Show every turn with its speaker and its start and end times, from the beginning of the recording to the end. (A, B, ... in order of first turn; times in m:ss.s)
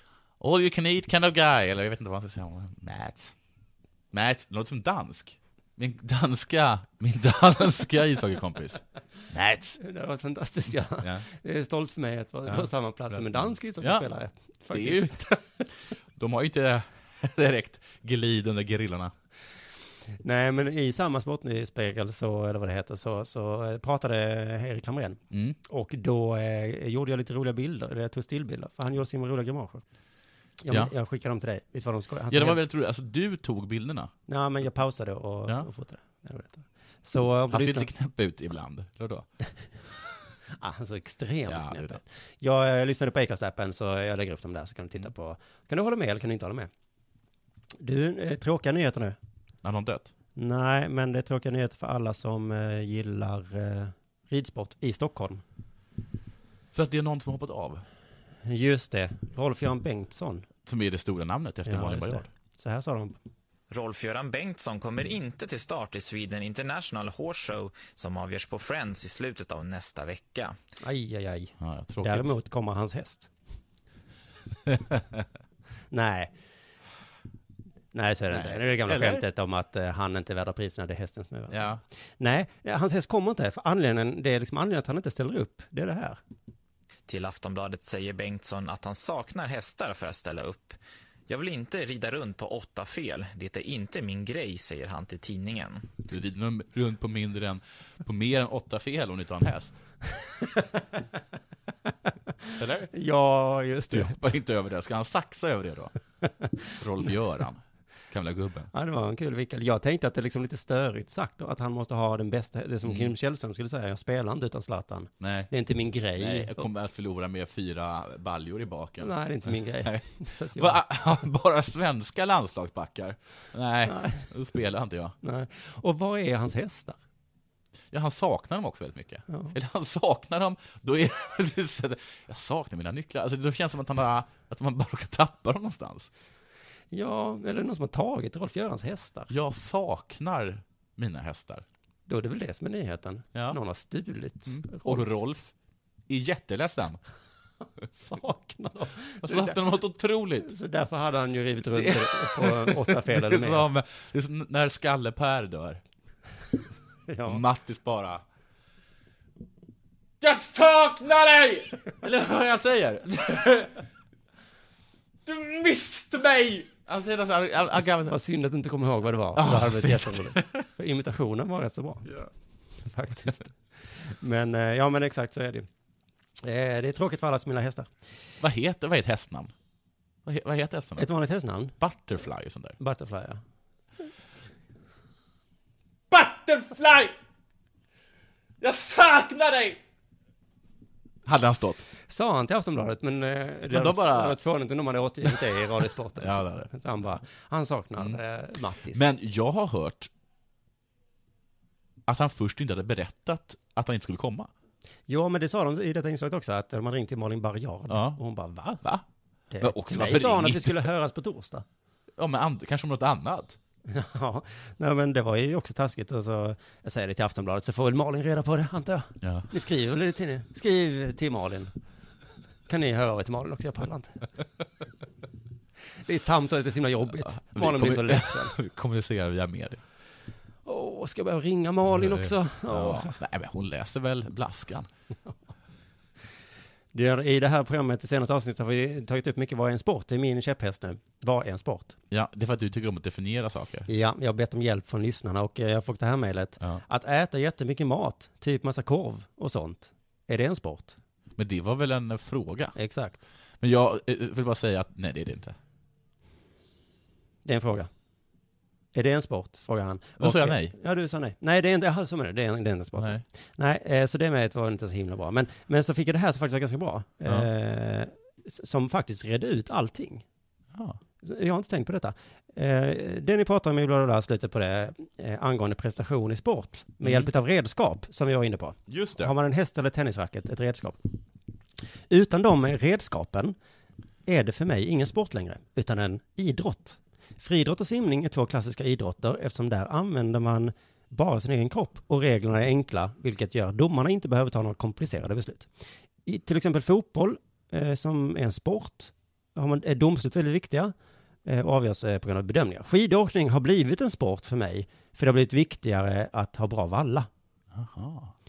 0:00.4-0:03.3 A
0:04.1-0:09.8 A
0:09.8-0:15.2 B
0:12.5-0:14.0 A
0:14.7-0:15.6 A
0:16.2-0:19.1 A
0:20.2-0:29.8 B
0:25.3-0:25.6 A
0:30.6-0:32.6 B
0:32.3-0:34.1 A
0:34.3-0:37.9 B
0:37.5-0:39.3 A
0:40.6-0:46.7 B
0:41.5-0:42.0 A
0:47.8-0:49.2 B
0:49.6-0:50.1 A
0:50.4-0:55.4 B
0:56.7-0:57.8 A
0:58.4-1:00.4 B
1:00.6-1:02.3 A
1:01.6-1:03.2 B
1:03.7-1:10.5 C
1:10.8-1:13.3 B
1:11.6-1:12.3 A
1:14.7-1:15.2 A
1:15.9-1:16.3 B
1:17.9-1:26.2 B
1:18.3-1:19.2 A
1:21.5-1:21.8 A
1:27.1-1:35.9 C
1:36.1-1:39.8 A
1:42.6-1:42.9 A
1:42.9-1:44.2 B
1:43.9-1:45.9 A
1:46.8-1:48.7 A
1:48.7-1:56.6 B
1:52.8-1:53.1 A
1:55.2-1:55.5 A
1:56.2-2:05.2 A
1:59.0-2:00.8 B
2:03.9-2:04.2 B
2:05.2-2:07.0 B
2:07.9-2:16.1 A
2:09.3-2:09.5 B
2:16.9-2:19.3 B
2:19.3-2:21.6 A
2:22.1-2:25.2 B
2:23.3-2:23.6 A
2:24.4-2:25.5 A
2:26.1-2:27.0 A
2:27.9-2:29.6 B
2:29.2-2:30.5 A
2:30.4-2:33.7 B
2:31.7-2:35.8 A
2:37.1-2:37.4 B
2:37.2-2:38.2 A
2:40.2-2:43.8 A
2:45.2-2:48.2 A
2:48.0-2:52.2 B
2:49.4-2:50.6 A
2:52.8-2:55.7 B
2:56.4-2:57.9 B
2:58.4-2:59.5 A
3:00.2-3:01.1 A
3:01.0-3:01.8 B
3:01.8-3:02.8 A
3:02.8-3:03.4 B
3:06.1-3:07.1 A
3:08.6-3:09.8 A
3:11.2-3:11.8 A
3:12.1-3:19.0 B
3:13.7-3:14.4 A
3:15.2-3:16.7 A
3:18.9-3:20.1 A
3:22.1-3:24.5 A
3:25.1-3:28.8 B
3:27.9-3:28.2 A
3:29.5-3:31.6 B
3:29.6-3:30.9 A
3:32.2-3:33.6 A
3:33.9-3:41.7 B
3:39.2-3:39.5 A
3:42.7-3:44.2 B
3:46.0-3:48.5 B
3:47.2-3:49.8 A
3:50.6-3:53.2 B
3:51.9-3:54.9 A
3:56.9-4:02.0 B
4:02.1-4:03.9 A
4:03.9-4:11.0 B
4:11.4-4:12.8 A
4:12.8-4:13.2 B
4:13.6-4:15.6 A
4:17.4-4:17.9 B
4:18.9-4:30.2 B
4:20.2-4:20.7 A
4:23.0-4:23.2 A
4:30.7-4:31.0 A
4:31.2-4:41.0 B
4:37.0-4:37.3 A
4:38.9-4:39.3 A
4:42.1-4:43.6 B
4:44.2-4:55.7 B
4:56.2-5:00.9 B
5:01.4-5:07.3 B
5:07.7-5:08.3 A